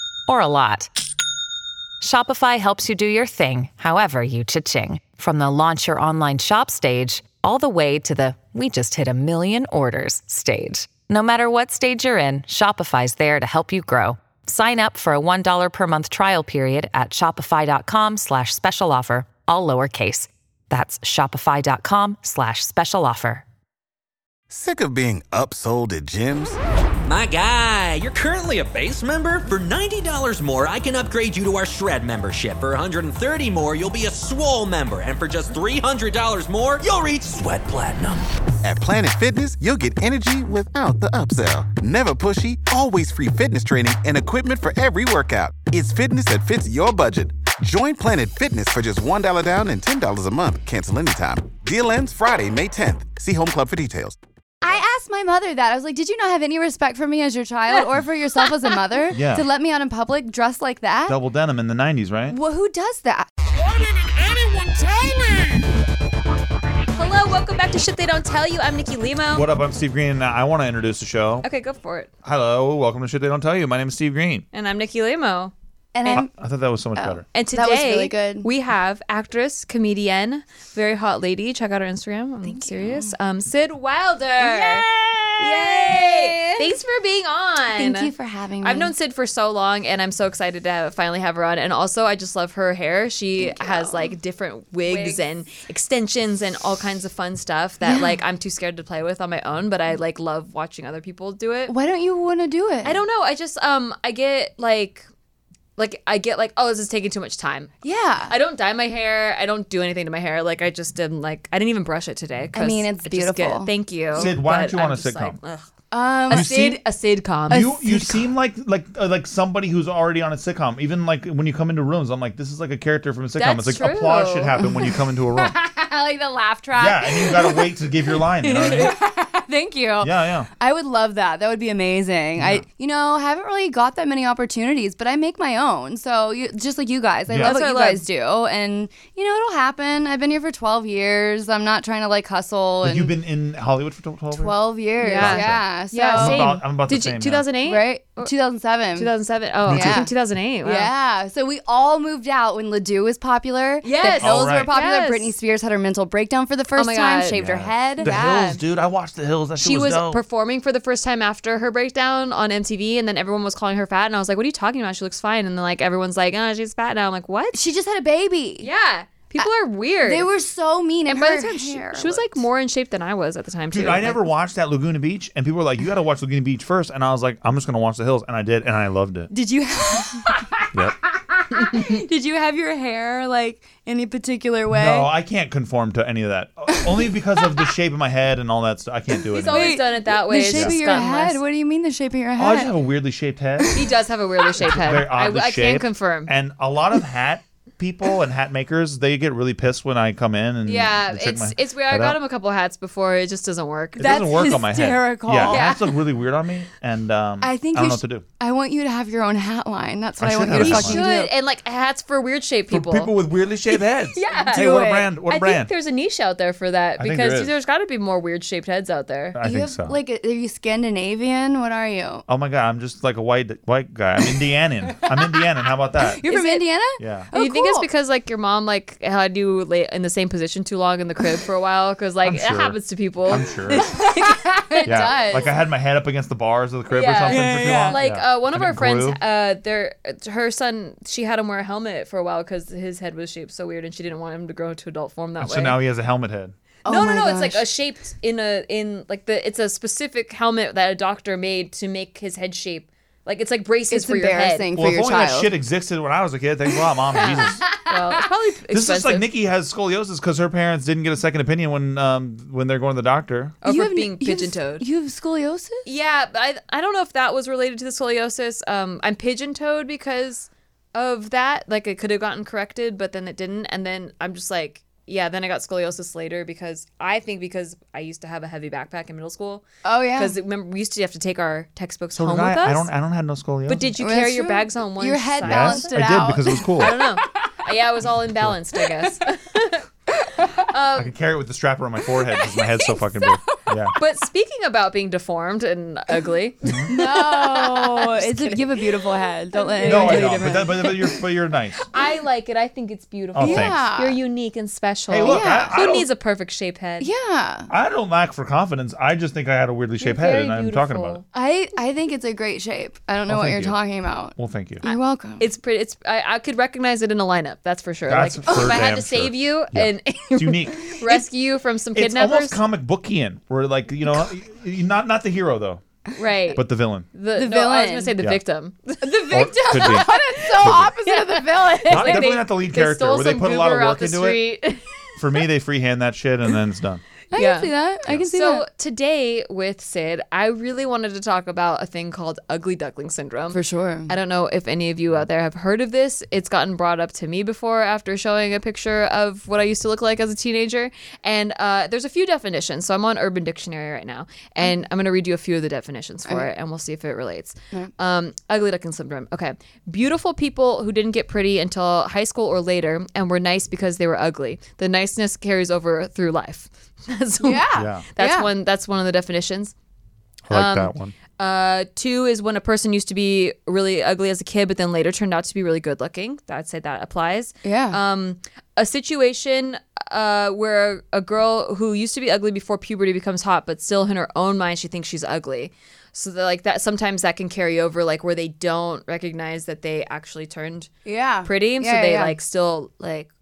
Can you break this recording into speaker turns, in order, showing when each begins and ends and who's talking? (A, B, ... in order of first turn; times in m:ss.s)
0:00.3-0:00.9 A
0:02.0-0:23.4 A
0:24.5-0:26.6 B
0:27.1-0:38.3 C
0:38.6-0:54.2 B
0:54.6-1:01.2 D
0:59.1-0:59.5 E
1:01.1-1:02.4 E
1:02.3-1:03.3 D
1:06.9-1:09.5 F
1:09.3-1:11.4 E
1:11.4-1:12.1 F
1:12.2-1:14.4 E
1:14.5-1:15.5 F
1:15.9-1:16.3 D
1:16.1-1:17.2 E
1:16.9-1:18.5 D
1:17.3-1:24.9 F
1:22.4-1:23.1 D
1:24.4-1:26.8 D
1:25.4-1:41.7 F
1:27.7-1:28.9 D
1:33.4-1:34.1 D
1:34.8-1:35.2 D
1:37.8-1:38.2 D
1:41.7-1:43.0 D
1:42.8-1:45.0 F
1:45.8-1:47.7 F
1:47.8-1:48.3 D
1:48.3-1:55.7 F
1:52.5-1:54.3 D
1:54.1-1:55.4 E
1:55.9-1:56.7 D
1:56.3-1:57.7 F
1:56.3-1:56.8 E
1:57.5-2:05.6 E
1:57.5-1:58.3 D
2:03.4-2:04.5 F
2:04.6-2:23.1 D
2:06.7-2:09.0 E
2:10.0-2:10.5 E
2:12.4-2:12.6 E
2:17.3-2:17.6 E
2:17.4-2:18.0 F
2:22.8-2:24.6 E
2:24.3-2:26.5 D
2:25.0-2:28.3 F
2:25.1-2:27.5 E
2:27.6-2:29.1 D
2:29.0-2:30.9 F
2:29.6-2:30.1 D
2:29.7-2:30.0 E
2:30.6-2:38.6 D
2:33.8-2:35.3 F
2:34.2-2:34.7 E
2:36.7-2:37.4 F
2:37.3-2:40.2 E
2:39.6-2:47.6 F
2:47.5-2:48.7 D
2:48.6-2:50.3 F
2:50.0-2:52.4 D
2:51.1-2:54.2 F
2:53.7-2:59.3 E
2:59.3-3:05.1 D
3:04.7-3:09.8 E
3:06.7-3:07.6 D
3:09.3-3:11.4 F
3:09.4-3:12.7 D
3:10.5-3:10.8 E
3:12.4-3:13.8 E
3:13.6-3:13.9 D
3:13.7-3:16.3 F
3:14.6-3:22.2 E
3:20.6-3:24.2 F
3:24.0-3:28.2 E
3:24.0-3:25.8 D
3:25.4-3:25.8 F
3:27.4-3:31.3 D
3:30.2-3:31.0 E
3:30.5-3:33.1 F
3:32.7-3:35.7 E
3:33.7-3:39.4 F
3:37.0-3:37.5 E
3:39.3-3:40.0 E
3:39.4-3:42.2 D
3:42.3-3:46.2 E
3:45.0-3:45.4 D
3:46.0-3:47.9 D
3:46.3-3:46.7 F
3:47.0-3:47.3 E
3:47.3-3:55.0 F
3:52.2-3:53.9 E
3:53.7-3:55.5 D
3:54.8-3:59.2 E
3:56.9-4:05.8 F
3:57.3-3:58.0 D
4:05.4-4:06.5 E
4:06.8-4:07.6 D
4:06.8-4:14.7 F
4:13.9-4:15.5 D
4:14.8-4:17.6 E
4:17.1-4:19.3 F
4:17.2-4:18.0 D
4:18.7-4:23.6 E
4:23.6-4:24.8 F
4:23.6-4:25.8 D
4:25.8-4:42.9 F
4:39.8-4:40.4 D
4:42.2-4:43.9 E
4:43.7-4:46.0 F
4:44.0-4:47.5 D
4:45.4-4:46.9 E
4:46.7-4:49.8 F
4:50.2-4:50.6 D
4:50.7-4:51.1 F
4:51.0-4:54.0 E
4:52.2-4:53.9 D
4:54.0-4:58.8 F
4:56.6-4:56.9 E
4:56.9-5:01.2 D
4:59.5-5:00.7 F
4:59.8-5:01.9 E
5:01.9-5:07.1 F
5:03.3-5:03.8 E
5:03.4-5:04.2 D
5:05.1-5:06.1 E
5:05.2-5:05.8 D
5:07.0-5:07.7 D
5:07.7-5:11.2 E
5:10.0-5:11.2 F
5:11.3-5:15.4 D
5:13.2-5:13.7 E
5:14.4-5:14.8 E
5:14.8-5:22.6 F
5:18.0-5:21.0 E
5:18.5-5:18.8 D
5:21.9-5:25.8 E
5:26.2-5:35.0 F
5:26.5-5:27.1 E
5:27.3-5:28.1 D
5:29.0-5:32.3 D
5:29.3-5:30.9 E
5:31.9-5:34.4 E
5:35.2-5:37.0 E
5:37.3-5:38.6 D
5:37.3-5:37.7 F
5:38.2-6:09.7 F
5:43.5-5:44.1 D
6:07.4-6:08.5 D
6:07.7-6:08.0 E
6:10.4-6:11.1 E
6:10.5-6:30.9 F
6:17.6-6:18.0 D
6:31.0-6:32.4 D
6:31.4-6:33.3 F